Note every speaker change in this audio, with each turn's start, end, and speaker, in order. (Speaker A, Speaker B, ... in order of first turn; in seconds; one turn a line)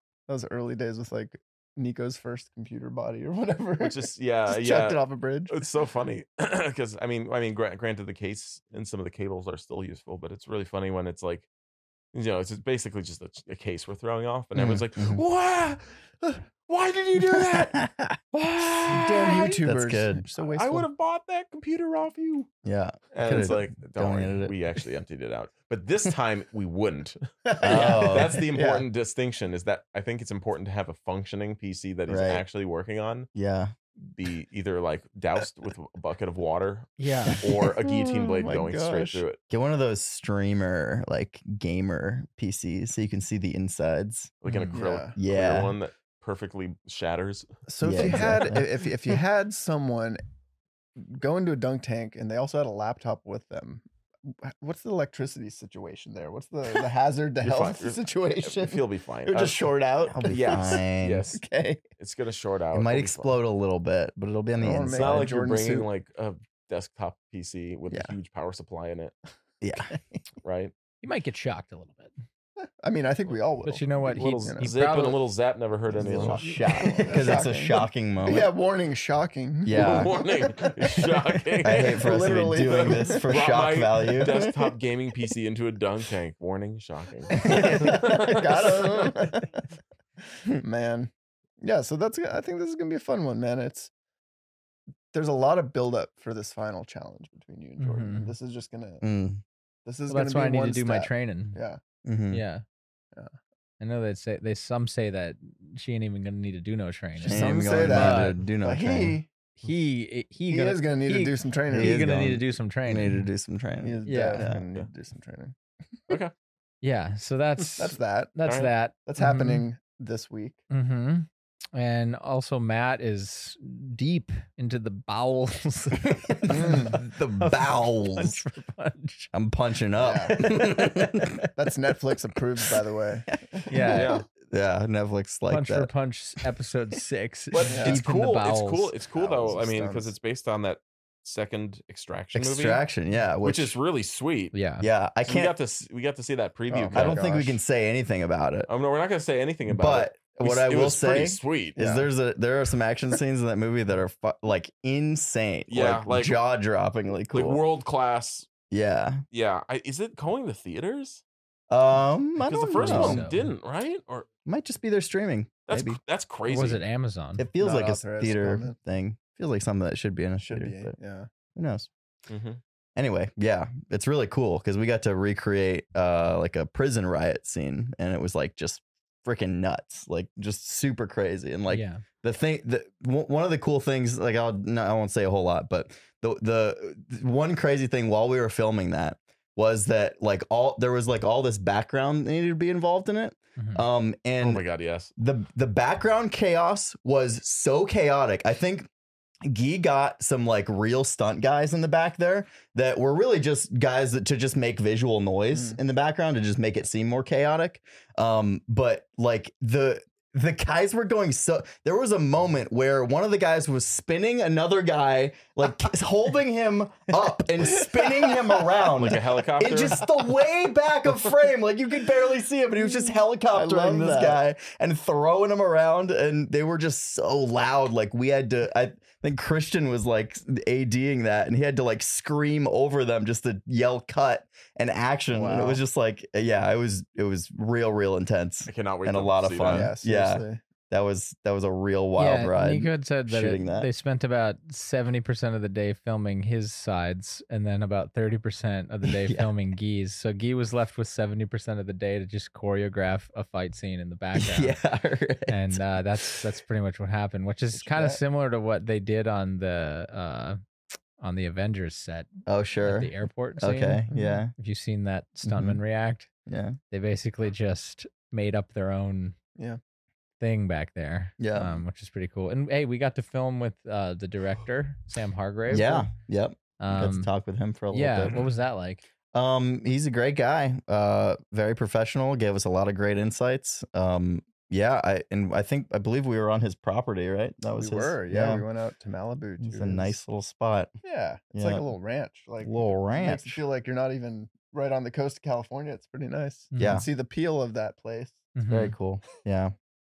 Speaker A: 0.3-5.6
Speaker B: 3.8-11.5
Speaker B: 12.1-19.6
Speaker C: 14.5-15.2
Speaker C: 17.3-18.2
Speaker A: 18.9-20.9
Speaker C: 19.5-20.2
Speaker B: 20.4-22.5
Speaker C: 22.6-24.6
Speaker B: 23.1-33.3
Speaker A: 27.4-28.9
Speaker C: 27.6-28.4
Speaker C: 32.1-32.4
Speaker C: 33.3-33.7
Speaker B: 34.0-39.4
Speaker D: 37.0-37.4
Speaker A: 37.8-39.2
Speaker C: 39.5-44.3
Speaker B: 44.4-47.5
Speaker D: 44.5-44.8
Speaker A: 44.7-45.1
Speaker C: 45.1-45.7
Speaker A: 47.7-50.2
Speaker C: 47.8-48.6
Speaker A: 51.0-58.8
Speaker B: 57.4-59.6
Speaker C: 59.3-61.3
Speaker A: 60.1-60.8
Speaker B: 60.2-61.4
Speaker A: 61.3-61.8
Speaker B: 62.0-63.3
Speaker C: 62.7-65.3
Speaker A: 64.6-65.9
Speaker B: 64.9-69.1
Speaker C: 69.6-70.0
Speaker B: 70.4-70.7
Speaker D: 71.0-72.1
Speaker A: 72.8-74.7
Speaker D: 73.6-75.2
Speaker B: 74.1-76.4
Speaker A: 75.9-81.0
Speaker C: 76.0-78.5
Speaker C: 79.6-80.2
Speaker B: 79.7-89.2
Speaker C: 81.6-84.5
Speaker A: 81.6-83.3
Speaker A: 87.3-89.6
Speaker C: 87.4-87.9
Speaker A: 90.5-93.9
Speaker A: 95.1-99.0
Speaker D: 97.8-98.3
Speaker C: 99.0-99.4
Speaker A: 99.8-101.8
Speaker D: 100.1-101.5
Speaker C: 102.0-102.4
Speaker D: 102.3-102.6
Speaker D: 103.8-108.4
Speaker A: 107.2-109.3
Speaker C: 107.2-109.2
Speaker D: 109.6-113.3
Speaker A: 110.5-112.2
Speaker C: 111.7-114.6
Speaker A: 113.8-115.5
Speaker D: 114.0-114.4
Speaker D: 116.8-119.6
Speaker A: 117.8-118.3
Speaker A: 119.0-120.6
Speaker D: 120.7-129.3
Speaker C: 126.0-128.4
Speaker A: 126.5-127.0
Speaker C: 129.3-131.5
Speaker A: 130.0-130.9
Speaker A: 131.5-133.3
Speaker C: 133.3-135.9
Speaker D: 133.7-134.1
Speaker B: 133.9-134.2
Speaker D: 135.5-138.9
Speaker B: 137.5-142.8
Speaker A: 137.7-138.0
Speaker A: 139.1-140.1
Speaker C: 142.3-143.8
Speaker B: 143.4-144.5
Speaker D: 144.5-144.8
Speaker C: 144.8-145.5
Speaker B: 145.2-147.3
Speaker A: 146.7-147.6
Speaker C: 146.9-148.7
Speaker B: 148.7-151.8
Speaker C: 149.7-157.6
Speaker A: 151.8-152.1
Speaker B: 155.7-156.4
Speaker B: 157.3-158.5
Speaker C: 158.7-159.2
Speaker B: 159.3-161.2
Speaker C: 161.7-163.3
Speaker B: 162.4-164.3
Speaker D: 162.7-163.4
Speaker C: 164.4-166.0
Speaker B: 165.7-166.8
Speaker D: 166.5-167.4
Speaker C: 167.4-170.9
Speaker A: 167.6-168.8
Speaker A: 170.4-171.3
Speaker C: 171.6-171.9
Speaker B: 172.3-172.6
Speaker C: 172.9-194.6
Speaker D: 181.7-182.0
Speaker D: 193.6-193.8
Speaker B: 194.4-195.1
Speaker C: 195.2-198.9
Speaker C: 199.4-243.9
Speaker A: 205.5-205.8
Speaker B: 218.9-220.3
Speaker A: 222.8-224.4
Speaker A: 235.3-235.8
Speaker B: 238.7-239.9
Speaker A: 239.7-240.6
Speaker D: 242.2-254.8
Speaker C: 254.3-256.4
Speaker D: 255.5-260.6
Speaker A: 257.7-258.2
Speaker D: 261.2-262.3
Speaker C: 262.4-264.5
Speaker D: 262.8-264.0
Speaker A: 264.1-264.4
Speaker D: 264.5-266.3
Speaker C: 265.4-265.8
Speaker C: 266.5-266.8
Speaker D: 266.9-269.4
Speaker D: 270.4-276.1
Speaker C: 271.4-271.8
Speaker C: 275.7-278.4
Speaker D: 276.8-277.3
Speaker D: 277.9-279.0
Speaker C: 279.3-288.6
Speaker A: 287.8-290.2
Speaker C: 289.6-290.9
Speaker A: 291.0-298.5
Speaker C: 291.5-291.8
Speaker C: 292.6-293.6
Speaker D: 296.7-297.0
Speaker C: 296.8-297.1
Speaker D: 298.6-298.9
Speaker C: 298.7-299.7